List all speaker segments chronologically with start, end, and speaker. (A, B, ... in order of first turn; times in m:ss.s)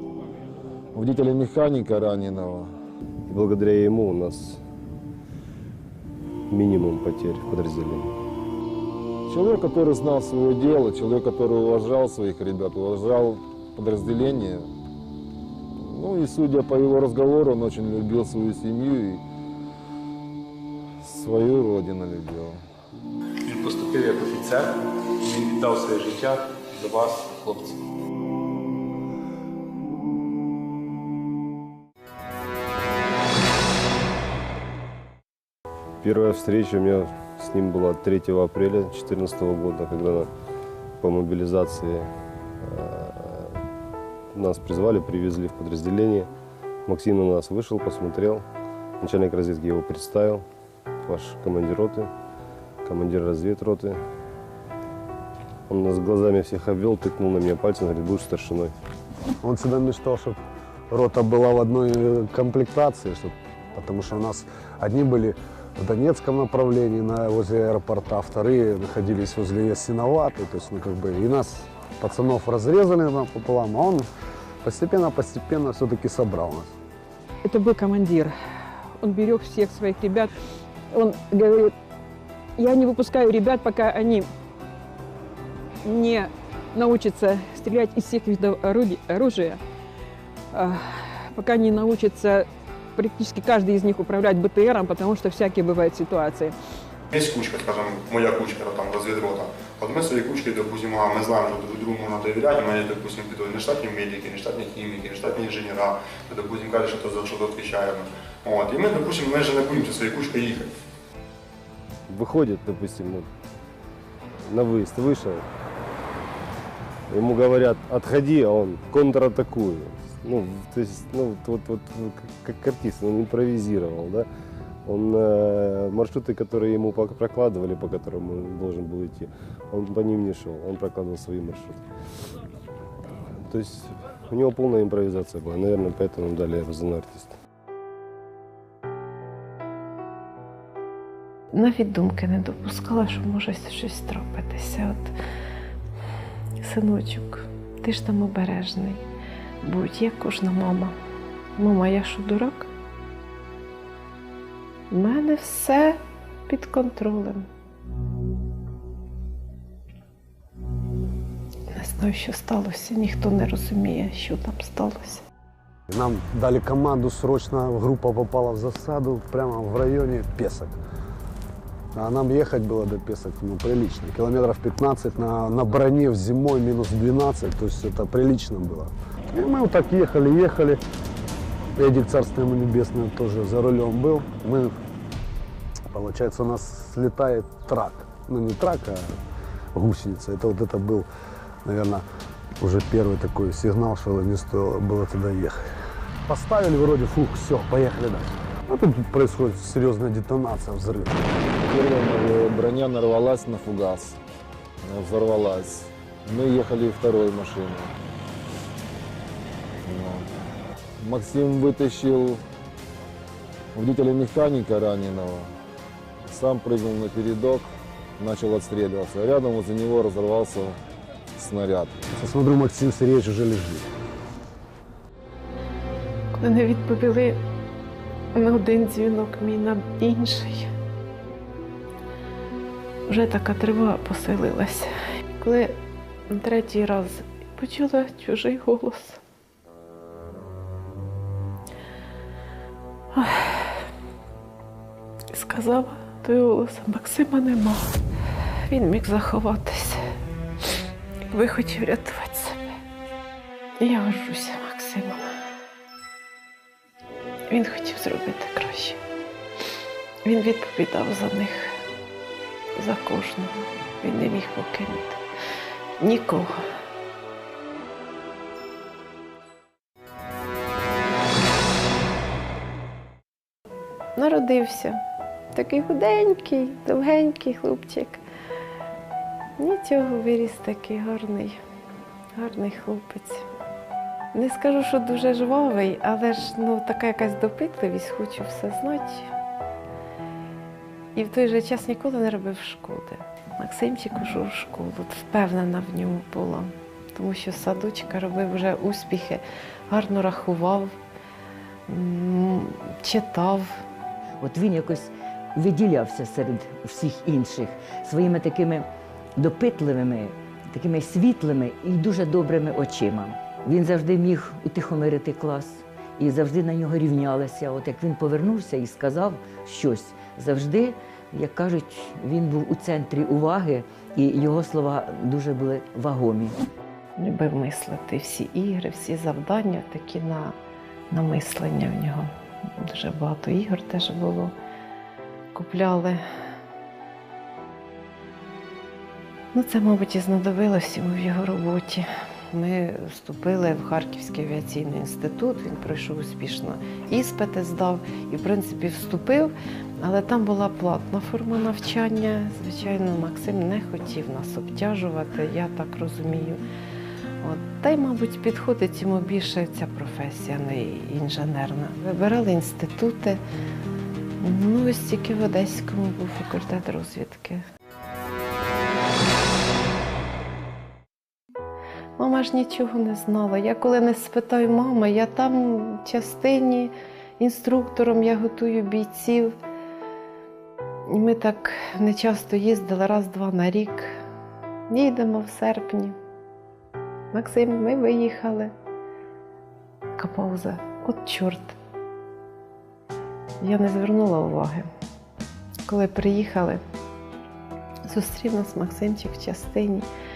0:00.9-0:02.8 A
0:03.3-0:04.6 B
0:06.5-0:08.1 B
0:09.3-0:14.7 A
0:15.8-0:19.2 A
0:21.0-0:22.6 A
0:23.4-0:27.8 C
0:36.0-0:40.3 B
0:41.0-0:42.1 B
0:42.6-0:43.6 B
0:44.3-0:46.3 B
0:46.9-0:48.4 B
0:49.0-0:50.4 B
0:51.0-0:52.1 B
0:52.8-0:54.0 B
0:55.7-0:58.7 B
0:59.4-1:00.4 D
1:00.9-1:14.1 D
1:14.6-1:16.7 D
1:17.4-1:18.3 E
1:19.0-1:20.3 E
1:20.9-1:21.7 E
1:22.6-1:24.3 E
1:25.8-1:29.6 E
1:30.5-1:36.5 E
1:37.1-1:50.7 F
1:52.1-1:53.3 B
1:54.5-1:55.4 B
1:57.1-2:04.3 B
2:04.9-2:11.8 B
2:13.4-2:17.4 B
2:21.5-2:25.1 G
2:26.6-2:29.0 G
2:29.6-2:31.0 G
2:31.6-2:32.7 G
2:34.9-2:37.5 G
2:41.7-2:45.2 G
2:45.9-2:50.8 D
2:51.9-3:00.8 D
3:01.8-3:04.7 D
3:05.9-3:09.1 D
3:09.7-3:11.1 D
3:11.6-3:12.0 D
3:12.6-3:15.6 D
3:16.3-3:21.2 D
3:21.6-3:24.2 A
3:24.8-3:27.9 A
3:29.8-3:30.3 A
3:31.0-3:32.4 A
3:33.7-3:35.5 A
3:36.2-3:40.8 A
3:41.4-3:42.0 A
3:42.1-3:43.9 D
3:46.4-3:47.4 G
3:48.4-3:50.7 G
3:53.1-3:55.8 G
3:56.3-3:59.2 G
4:03.1-4:03.8 G
4:05.3-4:07.9 G
4:08.7-4:10.0 G
4:11.3-4:12.8 G
4:13.8-4:15.3 G
4:17.5-4:19.0 G
4:20.2-4:21.8 G
4:22.8-4:25.2 G
4:26.0-4:26.6 G
4:34.2-4:35.0 G
4:35.5-4:38.2 G
4:39.6-4:41.6 G
4:42.4-4:43.5 G
4:44.3-4:49.3 G
4:51.2-5:00.9 G
5:01.9-5:03.8 G
5:04.4-5:08.9 H
5:09.4-5:26.6 H
5:27.2-5:30.6 G
5:31.1-5:34.5 G
5:35.5-5:36.2 G
5:39.5-5:56.6 G
5:57.4-6:03.4 G
6:04.4-6:07.6 G
6:12.2-6:19.6 G
6:21.1-6:24.2 G
6:24.9-6:26.2 G
6:27.3-6:28.7 G
6:30.2-6:31.8 G
6:33.6-6:34.9 G
6:35.9-6:36.8 G
6:38.1-6:40.1 G